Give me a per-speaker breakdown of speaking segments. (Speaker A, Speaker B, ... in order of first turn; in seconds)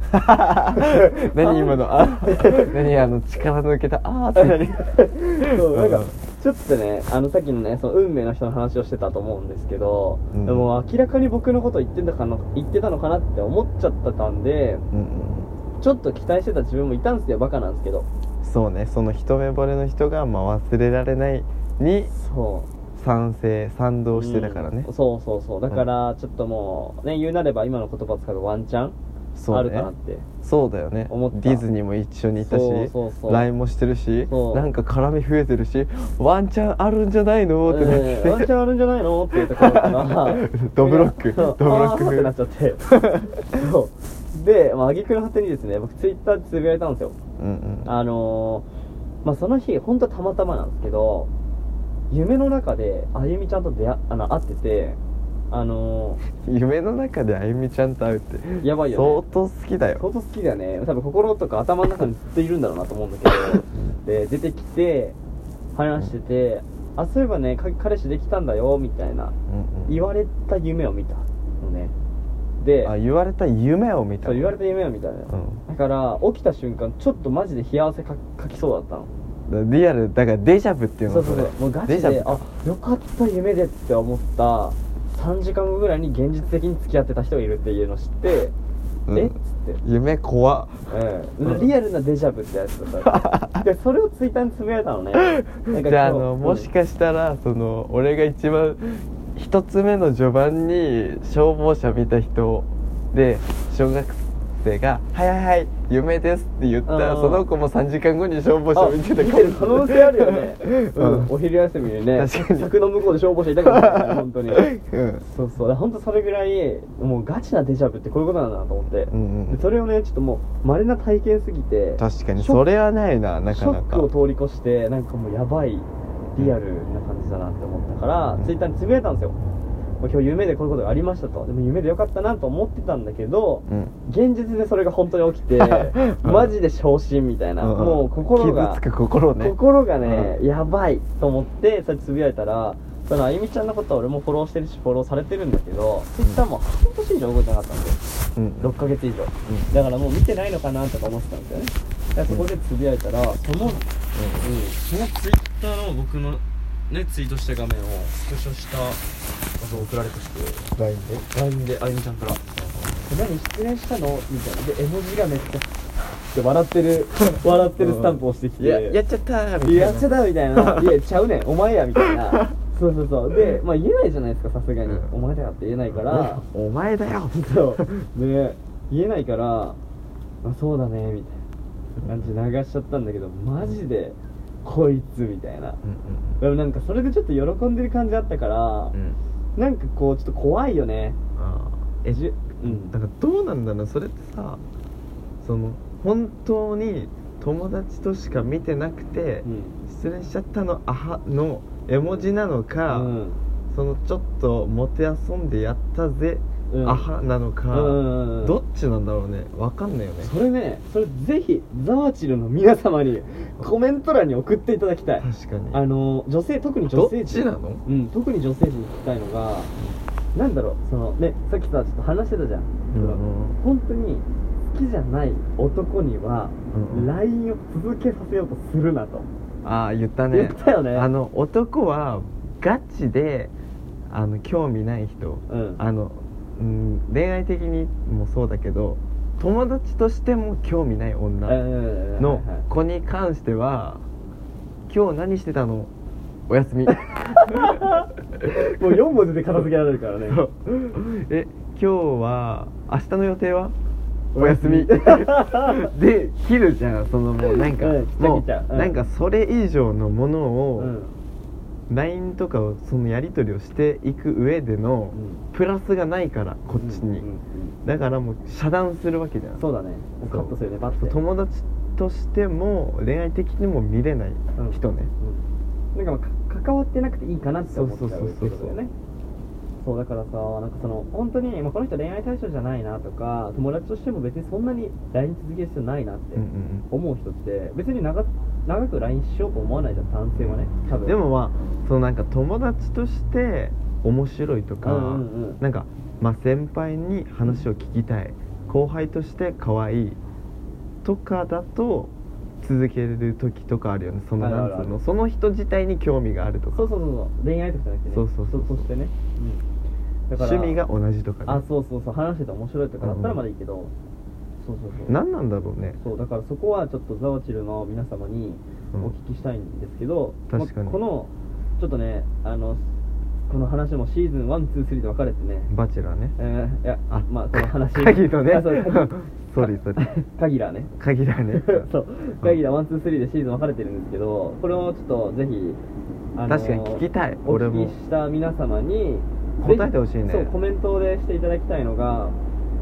Speaker A: 0.1-6.2, 10.3-10.7, 14.9-15.5, 18.4-22.1, 23.0-24.9, 29.4-29.9, 30.4-38.5, 39.4-42.3, 42.9-43.5, 47.4-47.9, 56.4-60.1, 63.7-64.0, 69.5-70.1, 72.8-74.6, 75.3-75.6, 79.5-82.5, 89.1-90.9, 93.0-93.6, 95.2-111.3, 112.1-112.7, 113.6-115.3, 119.1-119.6, 122.0-124.1, 133.7-133.9, 135.6-136.6, 137.6-140.4, 148.4-148.8, 153.7-154.6, 160.8-161.3, 162.6-163.1, 167.8-171.0, 175.9-178.0, 182.0-182.3, 185.8-186.4, 191.4-194.6, 195.4-203.2, 203.7-210.3, 215.2-215.8, 216.9-217.8, 222.9-223.6, 226.7-227.1, 229.6-233.5, 234.1-241.6, 242.2-244.0, 244.9-245.9, 246.5-247.8, 250.3-253.8, 254.4-260.9, 261.9-267.3, 267.9-269.6, 270.2-275.1, 277.6-278.8, 286.4-286.9, 290.4-300.2, 301.0-306.9, 308.1-308.9, 310.4-311.6, 313.0-313.4, 315.1-316.0, 320.5-321.0, 325.7-326.4, 327.1-330.0, 331.0-331.9, 336.5-338.0, 339.6-340.5
Speaker B: 0.7-3.0, 4.3-14.9, 15.8-18.1, 22.1-22.7, 24.1-29.0, 29.5-30.3, 31.1-31.6, 32.4-33.5, 34.3-34.7, 37.6-47.2, 47.9-48.7, 49.2-51.3, 52.1-55.0, 55.5-56.2, 58.6-59.3, 60.0-65.2, 65.8-69.3, 69.9-71.9, 72.6-72.9, 74.2-79.1, 81.1-88.5, 89.1-89.8, 90.9-96.7, 106.9-107.5, 108.7-114.7, 115.3-122.7, 123.5-129.4, 130.0-138.8, 139.4-148.0, 148.6-153.8, 154.4-159.0, 159.6-160.7, 161.3-162.4, 163.0-169.0, 169.6-176.4, 177.3-179.8, 180.4-181.4, 182.1-185.8, 186.4-189.0, 189.6-191.2, 192.1-193.0, 199.4-199.8, 202.9-203.4, 206.7-207.1, 207.7-208.6, 210.2-219.7, 220.3-229.3, 230.3-231.1, 235.5-235.8, 241.5-242.7, 247.0-250.4, 254.3-255.9, 257.4-258.9, 260.8-261.1, 265.1-265.4, 266.8-267.8, 269.6-271.2, 274.6-275.4, 275.9-278.9, 279.8-291.2, 294.8-295.6, 304.4-304.9, 306.7-309.6, 310.3-310.8, 311.5-313.9, 314.6-315.2, 316.0-322.8, 323.5-325.7, 326.4-330.9, 331.6-335.8, 336.4-342.4